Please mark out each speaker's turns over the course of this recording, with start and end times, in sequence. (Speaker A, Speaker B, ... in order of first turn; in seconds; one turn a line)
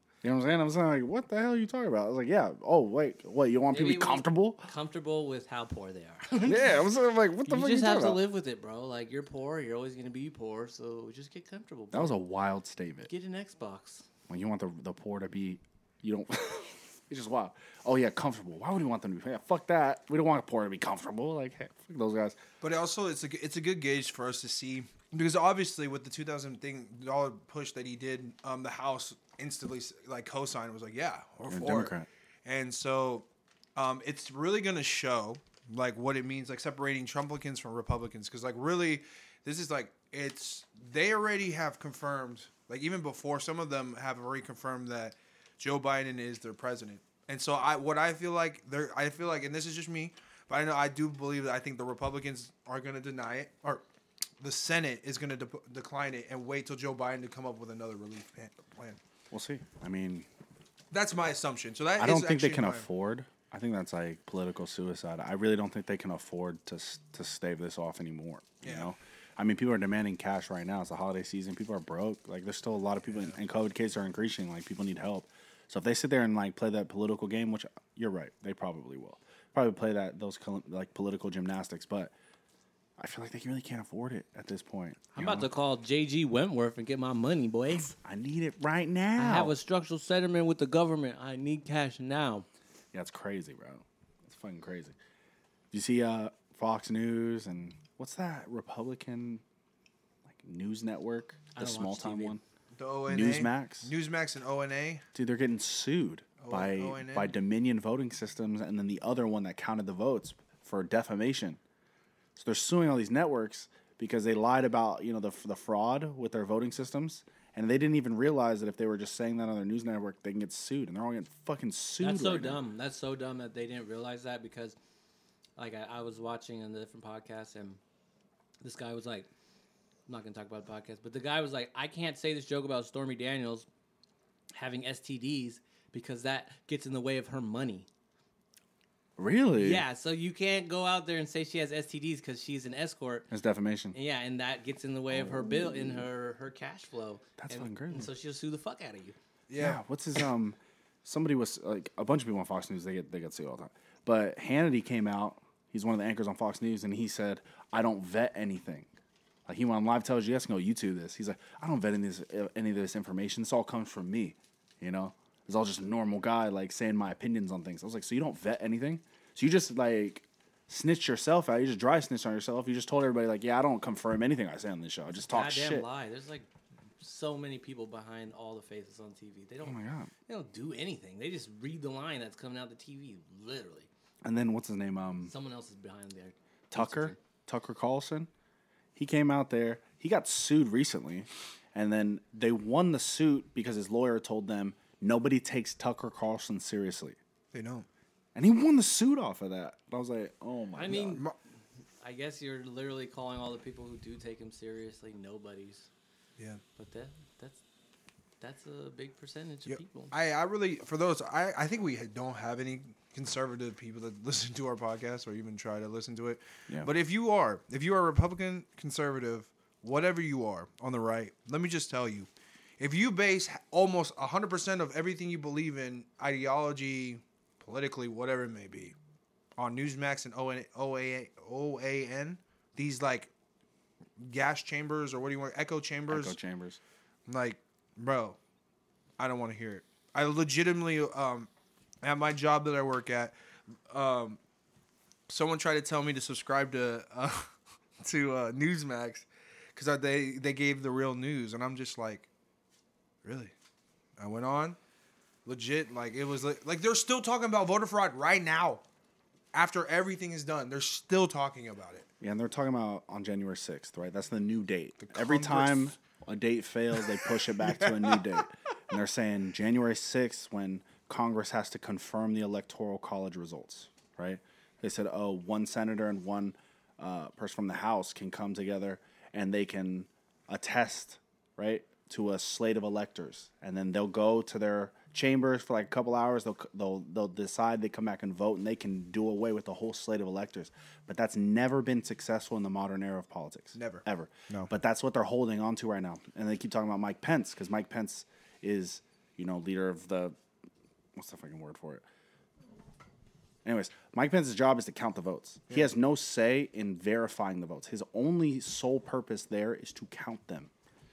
Speaker A: 0.2-4.7
Speaker B: 3.7-6.8
Speaker A: 6.4-8.2
Speaker B: 7.4-12.2
Speaker A: 11.9-13.1
Speaker B: 13.1-14.1
Speaker A: 14.3-22.4
Speaker C: 22.6-53.8
Speaker A: 31.5-32.1
Speaker C: 54.4-59.0
Speaker A: 59.3-60.3
Speaker C: 60.9-62.9
Speaker A: 62.0-82.1
Speaker C: 68.6-68.9
Speaker A: 83.0-85.5
Speaker B: 85.1-88.0
Speaker A: 88.0-89.5
Speaker B: 89.2-92.5
Speaker A: 92.9-95.0
Speaker A: 95.7-99.4
Speaker A: 100.2-102.4
Speaker B: 101.5-102.4
Speaker C: 102.8-105.0
Speaker A: 103.1-103.9
Speaker A: 105.1-111.6
Speaker C: 106.4-107.3
Speaker A: 112.3-122.6
Speaker B: 122.0-124.8
Speaker B: 125.6-127.8
Speaker B: 128.6-129.3
Speaker B: 130.1-133.7
Speaker B: 134.5-137.9
Speaker A: 139.2-139.8
Speaker B: 139.6-143.3
Speaker A: 143.3-144.0
Speaker B: 143.9-149.2
Speaker A: 145.1-146.1
Speaker A: 147.4-148.1
Speaker C: 149.5-149.8
Speaker A: 149.6-158.9
Speaker A: 159.4-175.9
Speaker B: 175.2-176.5
Speaker B: 177.0-183.9
Speaker A: 179.6-180.1
Speaker A: 184.2-185.3
Speaker B: 185.2-187.2
Speaker A: 186.7-188.3
Speaker A: 188.9-197.2
Speaker C: 197.5-197.9
Speaker A: 198.3-201.2
Speaker B: 200.8-201.3
Speaker B: 202.0-205.9
Speaker B: 206.8-207.6
Speaker B: 208.4-210.1
Speaker C: 209.7-222.3
Speaker C: 222.8-228.9
Speaker C: 229.6-233.3
Speaker C: 234.2-236.4
Speaker A: 236.1-236.8
Speaker C: 237.3-238.4
Speaker C: 239.2-241.5
Speaker C: 242.0-243.3
Speaker C: 243.9-244.4
Speaker C: 245.3-252.3
Speaker C: 253.2-253.5
Speaker C: 254.2-254.8
Speaker C: 255.4-258.8
Speaker C: 259.5-262.1
Speaker A: 262.2-300.4
Speaker C: 265.0-265.9
Speaker C: 267.0-268.4
Speaker C: 293.8-294.7
Speaker A: 301.1-302.0
Speaker A: 303.6-310.7